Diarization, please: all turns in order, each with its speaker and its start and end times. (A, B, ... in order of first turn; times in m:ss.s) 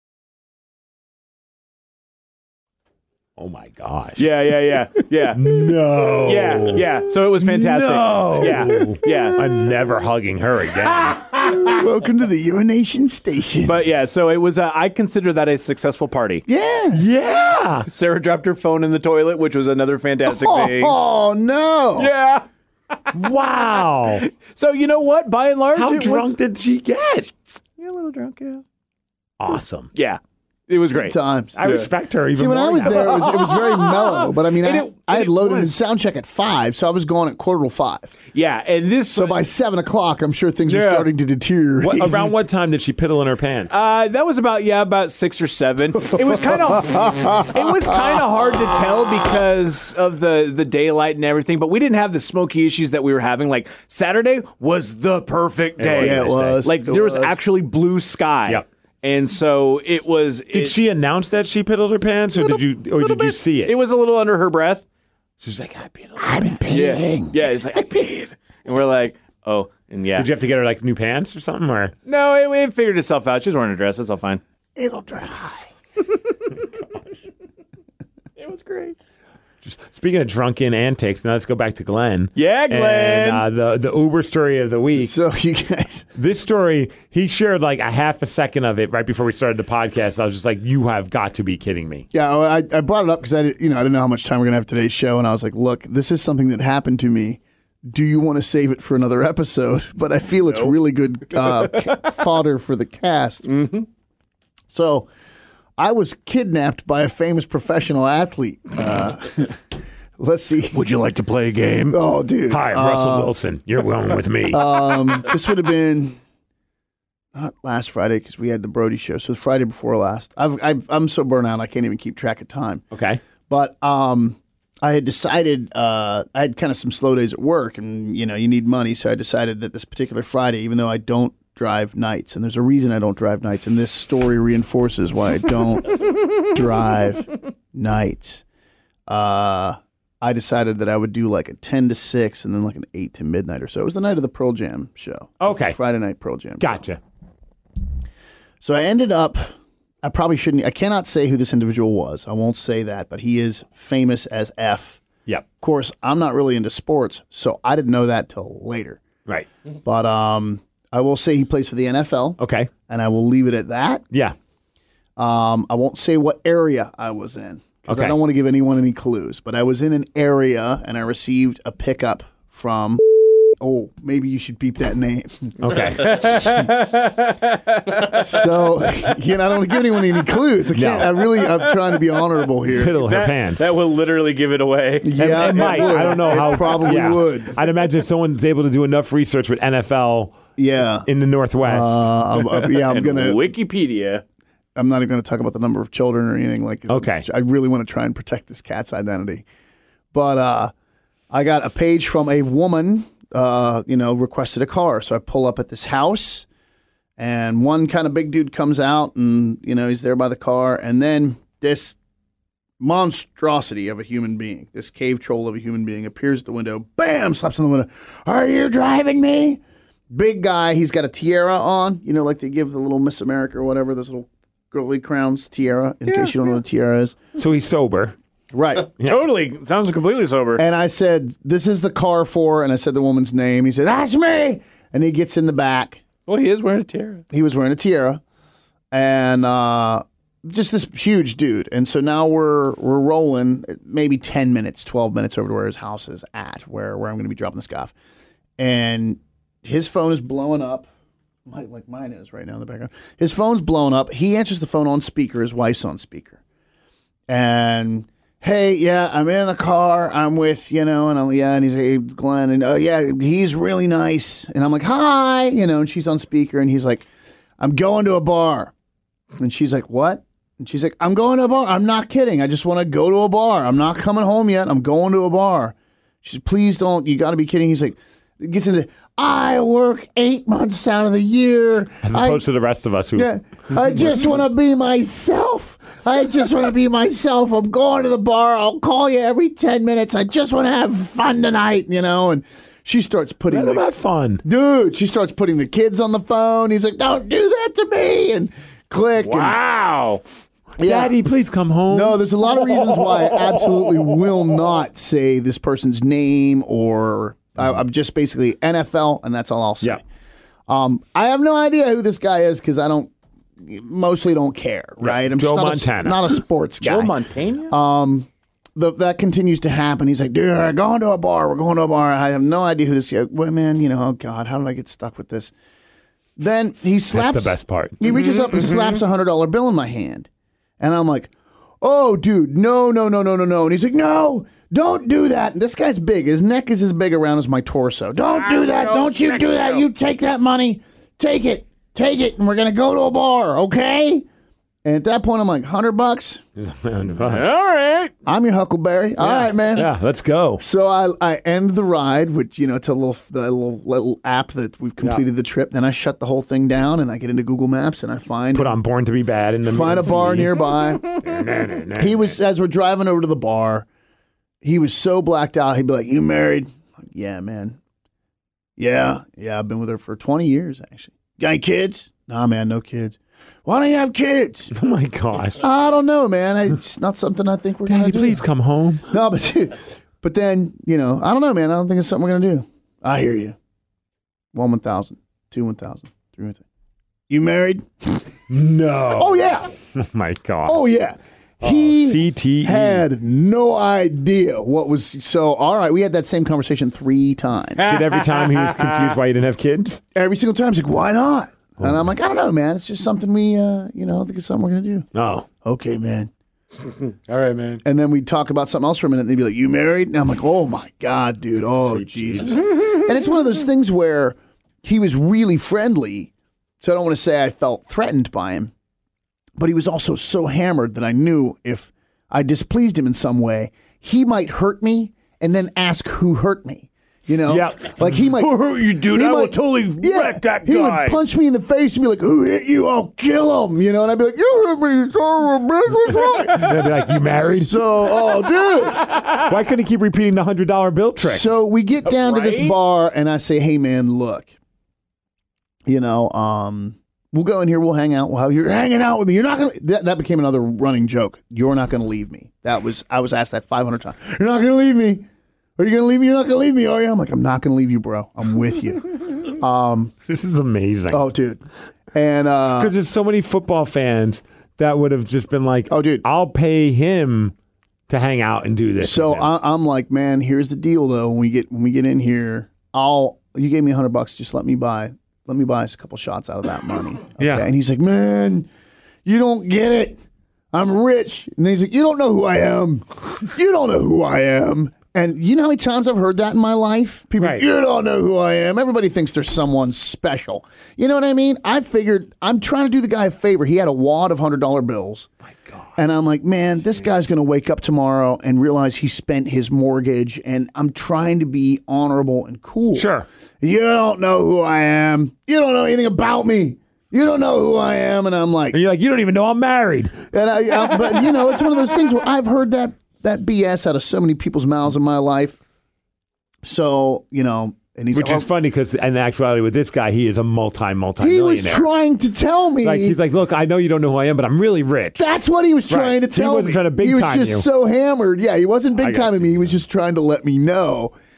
0:03.4-0:04.3 A
0:04.2-0:09.7 B
0:05.3-0:06.8 A
0:07.4-0:11.3 A
0:08.3-0:09.0 C
0:11.0-0:11.8 B
0:11.5-0:13.8 C
0:13.6-0:16.4 B
0:16.5-0:17.0 C
0:16.9-0:17.9 A
0:17.8-0:21.0 B
0:20.2-0:22.1 C
0:22.0-0:26.3 B
0:23.1-0:24.2 A
0:25.7-0:27.3 A
0:27.5-0:28.6 B
0:29.4-0:29.9 A
0:29.9-0:31.9 B
0:30.9-0:31.6 C
0:31.6-0:33.2 A
0:32.3-0:38.1 C
0:32.9-0:35.8 B
0:38.3-0:39.4 B
0:39.1-0:42.3 C
0:40.7-0:41.1 B
0:41.8-0:43.8 A
0:43.7-1:00.8 B
0:46.2-0:48.2 C
0:55.8-0:56.6 A
0:56.0-0:57.4 C
1:00.5-1:03.7 A
1:02.4-1:04.8 B
1:05.4-1:06.6 A
1:06.2-1:07.3 C
1:06.7-1:10.3 B
1:10.2-1:11.9 A
1:12.0-1:14.4 B
1:14.8-1:15.7 C
1:18.4-1:19.0 B
1:19.6-1:25.1 A
1:22.4-1:23.4 B
1:25.0-1:26.1 C
1:26.2-1:32.0 A
1:32.1-1:43.5 C
1:41.4-1:42.1 B
1:43.5-1:43.9 B
1:44.7-1:45.1 C
1:45.8-1:49.6 C
1:50.2-1:50.8 C
1:50.7-1:52.0 B
1:51.9-1:53.3 C
1:52.5-1:54.8 A
1:54.5-1:56.2 C
1:57.3-2:02.8 C
2:02.9-2:03.2 A
2:03.5-2:18.4 C
2:19.1-2:26.8 C
2:25.4-2:25.8 A
2:26.6-2:27.0 A
2:28.6-2:35.0 C
2:35.6-2:39.0 C
2:39.8-2:44.0 C
2:42.4-2:42.7 A
2:45.2-2:53.0 C
2:47.9-2:48.2 A
2:53.6-2:56.0 C
2:55.6-2:56.2 A
2:56.0-2:58.5 B
2:58.0-3:03.0 C
3:00.7-3:01.1 A
3:01.4-3:01.7 B
3:02.8-3:03.7 A
3:02.8-3:07.2 B
3:05.0-3:07.6 C
3:05.2-3:10.4 A
3:10.6-3:11.1 C
3:11.0-3:12.1 A
3:11.6-3:13.4 C
3:12.4-3:14.2 B
3:14.8-3:19.4 C
3:16.9-3:17.2 A
3:20.1-3:20.7 C
3:21.3-3:26.4 C
3:27.2-3:32.0 C
3:32.8-3:47.2 C
3:46.0-3:46.3 B
3:47.4-3:48.2 A
3:48.5-3:48.9 C
3:49.0-3:50.6 B
3:50.6-3:56.0 C
3:56.3-3:57.2 B
3:57.3-3:58.2 C
3:58.9-4:07.9 C
4:08.6-4:10.9 C
4:11.5-4:16.4 C
4:17.3-4:27.0 C
4:27.6-4:28.7 C
4:29.4-4:42.4 C
4:42.0-4:43.3 A
4:43.1-4:53.9 C
4:53.5-4:54.4 A
4:54.4-4:59.6 C
4:59.3-5:00.2 B
5:00.8-5:01.2 C
5:00.8-5:02.2 A
5:01.9-5:10.0 C
5:10.7-5:17.1 C
5:15.0-5:16.2 A
5:16.9-5:17.6 A
5:17.0-5:17.4 B
5:17.7-5:25.5 C
5:26.4-5:30.3 C
5:27.1-5:28.0 A
5:30.8-5:44.2 C
5:44.8-5:46.4 C
5:46.6-5:47.4 A
5:47.2-5:48.1 B
5:48.2-5:49.9 C
5:49.2-5:50.6 A
5:50.6-5:58.8 C
5:58.5-6:02.3 A
5:59.6-6:01.1 C
6:01.9-6:03.8 C
6:04.6-6:07.8 C
6:08.8-6:14.7 C
6:14.7-6:15.6 A
6:15.6-6:18.4 C
6:17.9-6:19.0 A
6:19.1-6:23.6 C
6:24.5-6:26.6 C
6:27.3-6:28.3 C
6:28.5-6:29.3 A
6:29.0-6:29.7 C
6:29.9-6:30.8 A
6:30.6-6:37.8 C
6:31.6-6:33.0 A
6:37.8-6:39.2 B
6:37.8-6:40.0 A
6:40.1-6:45.1 C
6:45.1-6:45.5 A
6:45.6-6:46.3 C
6:47.3-6:47.7 B
6:47.3-6:47.8 A
6:47.8-6:58.7 C
6:52.2-6:52.4 A
6:59.6-7:08.5 C
7:07.5-7:07.8 A
7:08.3-7:11.2 B
7:09.0-7:16.9 C
7:16.6-7:17.7 A
7:17.4-7:19.1 C
7:19.3-7:21.4 A
7:21.2-7:24.5 C
7:22.0-7:22.8 B
7:25.8-7:35.2 C
7:35.8-7:40.1 C
7:40.3-7:41.2 A
7:41.1-7:41.6 C
7:42.1-7:42.9 C
7:42.8-7:47.5 A
7:45.9-7:46.2 C
7:48.1-7:49.4 A
7:49.0-7:58.7 C
7:57.4-7:57.7 A
7:59.2-8:00.2 C
8:00.7-8:15.3 C
8:07.4-8:07.6 A
8:15.5-8:15.9 A
8:16.0-8:23.1 C
8:22.9-8:23.2 A
8:23.6-8:28.8 C
8:28.7-8:30.2 A
8:30.3-8:35.6 C
8:36.6-8:38.5 C
8:38.1-8:41.8 A
8:41.2-8:43.2 C
8:42.8-8:45.2 A
8:45.2-8:51.1 C
8:45.9-8:47.6 A
8:49.0-8:49.8 A